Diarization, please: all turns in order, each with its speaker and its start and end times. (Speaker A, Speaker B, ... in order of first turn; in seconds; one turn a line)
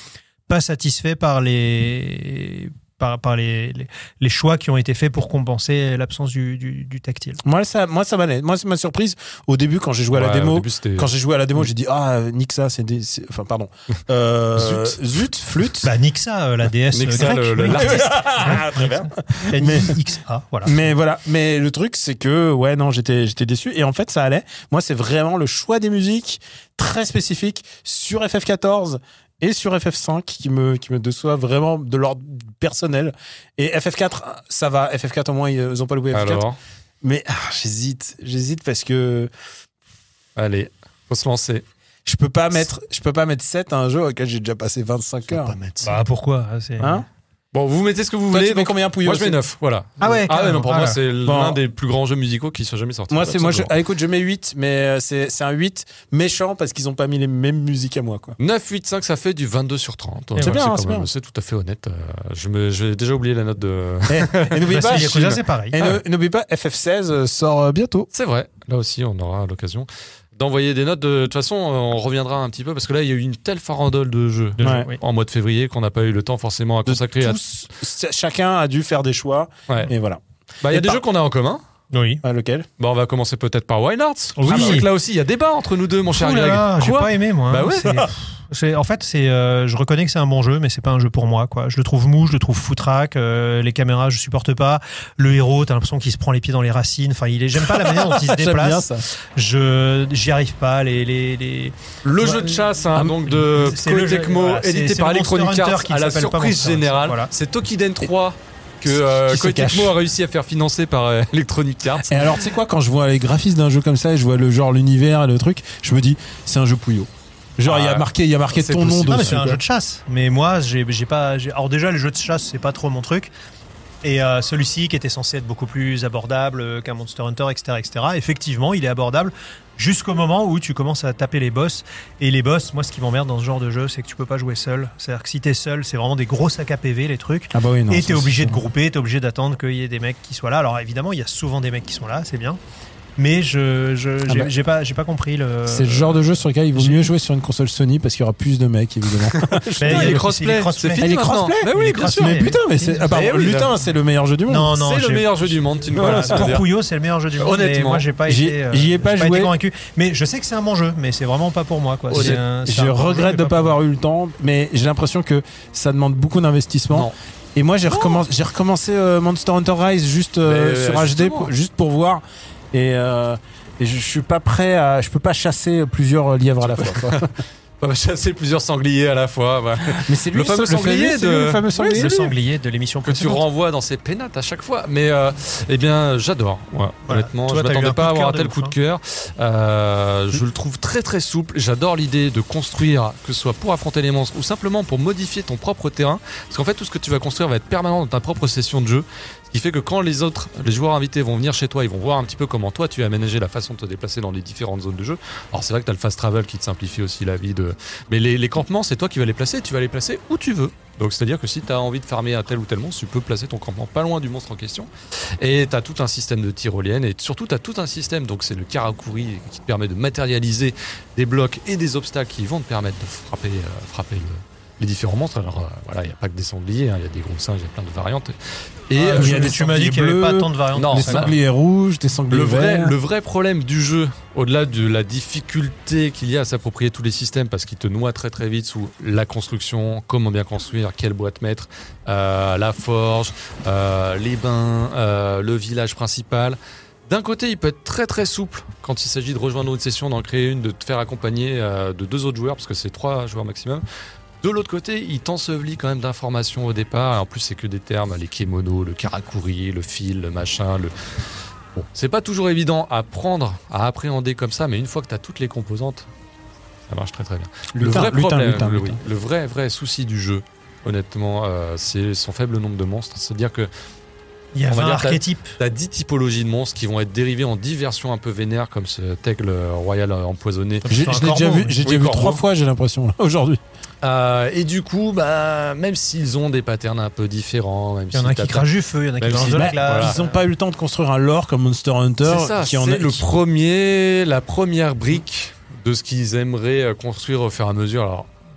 Speaker A: 0.5-7.4
Speaker B: 7.4-15.9
Speaker C: 10.1-11.1
Speaker C: 14.6-15.0
Speaker A: 15.8-20.8
Speaker C: 16.9-18.6
Speaker B: 17.6-20.0
Speaker B: 20.6-36.4
Speaker C: 36.1-36.6
Speaker B: 37.0-39.3
Speaker C: 40.4-41.6
Speaker B: 42.0-45.5
Speaker C: 45.3-46.0
Speaker A: 45.8-47.0
Speaker B: 46.8-47.0
Speaker C: 47.5-53.7
Speaker B: 48.3-49.4
Speaker A: 50.0-51.0
Speaker B: 51.2-51.6
Speaker B: 53.1-58.4
Speaker C: 58.4-65.4
Speaker B: 60.4-61.1
Speaker B: 64.1-68.1
Speaker A: 64.7-65.9
Speaker C: 68.1-77.4
Speaker A: 74.6-75.0
Speaker B: 74.6-74.9
Speaker B: 76.8-81.0
Speaker C: 80.6-81.6
Speaker A: 81.9-82.2
Speaker B: 82.2-82.7
Speaker C: 82.8-88.1
Speaker A: 84.4-84.9
Speaker B: 84.5-84.8
Speaker A: 86.1-107.3
Speaker B: 97.6-99.0
Speaker C: 102.0-112.4
Speaker A: 109.3-109.9
Speaker B: 112.0-119.6
Speaker C: 117.6-119.4
Speaker A: 119.1-123.3
Speaker A: 124.0-142.6
Speaker B: 137.5-138.6
Speaker A: 143.2-147.1
Speaker B: 144.2-144.5
Speaker B: 145.7-150.2
Speaker C: 149.3-153.8
Speaker A: 149.8-153.1
Speaker B: 151.0-154.7
Speaker A: 154.5-163.8
Speaker C: 154.7-156.7
Speaker B: 155.9-156.5
Speaker C: 157.4-158.1
Speaker B: 158.2-159.5
Speaker C: 162.1-162.4
Speaker B: 162.1-177.3
Speaker C: 167.9-168.2
Speaker C: 170.4-171.5
Speaker C: 176.8-182.3
Speaker B: 179.9-182.3
Speaker A: 181.7-183.4
Speaker C: 183.0-228.3
Speaker A: 187.1-188.7
Speaker C: 228.9-229.5
Speaker A: 228.9-231.3
Speaker B: 229.1-232.9
Speaker C: 230.7-231.3
Speaker C: 232.3-253.8
Speaker C: 254.4-261.1
Speaker C: 261.7-266.1
Speaker C: 266.9-273.7
Speaker B: 267.7-269.0
Speaker A: 274.5-275.5
Speaker C: 274.7-281.0
Speaker B: 280.9-283.6
Speaker A: 280.9-281.8
Speaker C: 281.8-282.4
Speaker C: 284.0-288.7
Speaker A: 288.1-290.4
Speaker C: 289.2-290.2
Speaker B: 289.4-293.3
Speaker C: 292.2-298.3